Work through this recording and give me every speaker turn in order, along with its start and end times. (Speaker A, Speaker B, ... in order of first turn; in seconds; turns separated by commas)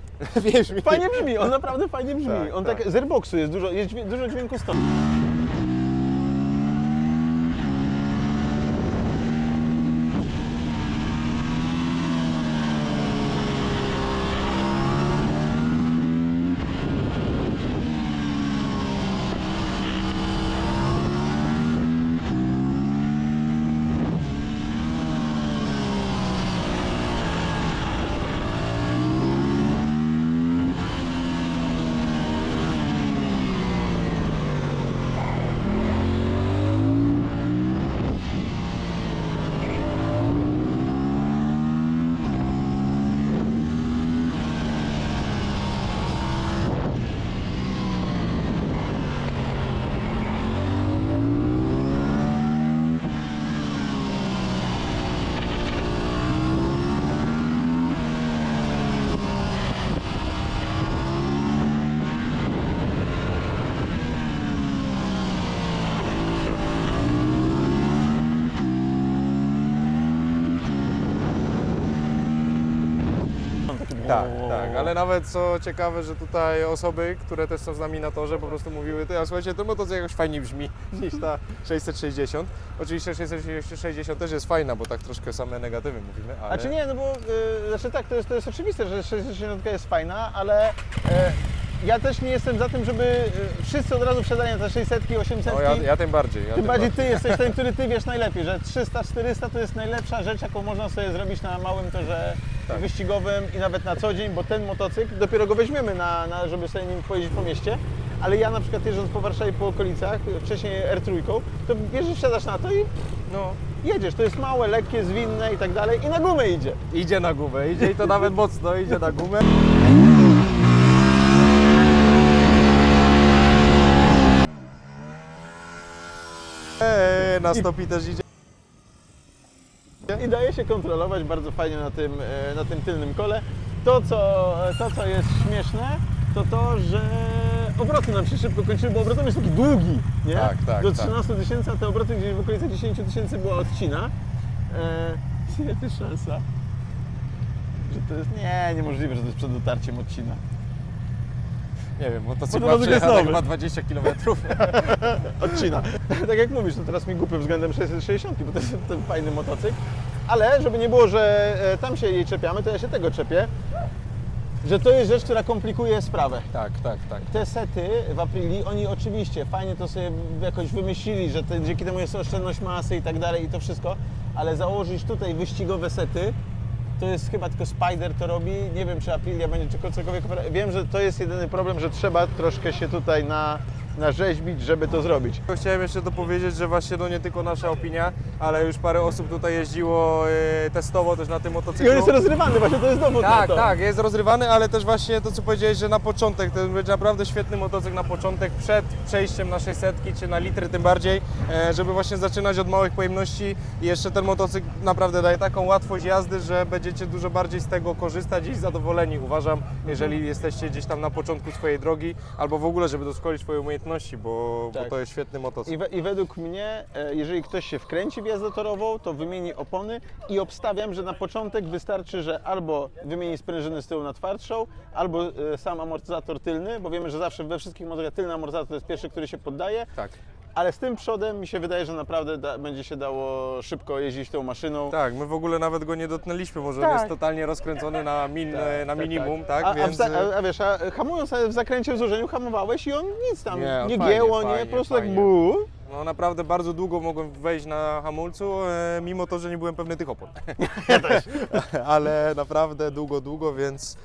Speaker A: 0.2-1.5, Speaker B: 0.8-4.8, Speaker A: 2.2-2.8, Speaker B: 73.7-74.9, Speaker A: 74.0-86.7, Speaker B: 86.5-95.9, Speaker A: 95.4-97.5, Speaker B: 96.5-112.9, Speaker A: 113.3-113.6, Speaker B: 113.8-116.8, Speaker A: 116.9-119.5, Speaker A: 126.8-128.2, Speaker B: 130.1-144.1, Speaker A: 140.3-141.1, Speaker B: 144.7-146.4, Speaker B: 147.8-150.4, Speaker A: 152.0-155.7, Speaker B: 152.5-153.4, Speaker B: 154.6-163.5, Speaker B: 164.6-166.5, Speaker A: 166.5-167.3, Speaker B: 167.3-176.3, Speaker B: 177.0-185.4, Speaker A: 185.5-192.2, Speaker B: 191.8-193.7, Speaker A: 193.2-215.7, Speaker B: 209.8-210.2, Speaker B: 215.7-229.9, Speaker B: 230.6-235.0, Speaker A: 234.9-240.3, Speaker B: 236.8-237.1, Speaker B: 238.5-245.7, Speaker A: 243.5-254.0, Speaker B: 250.6-251.4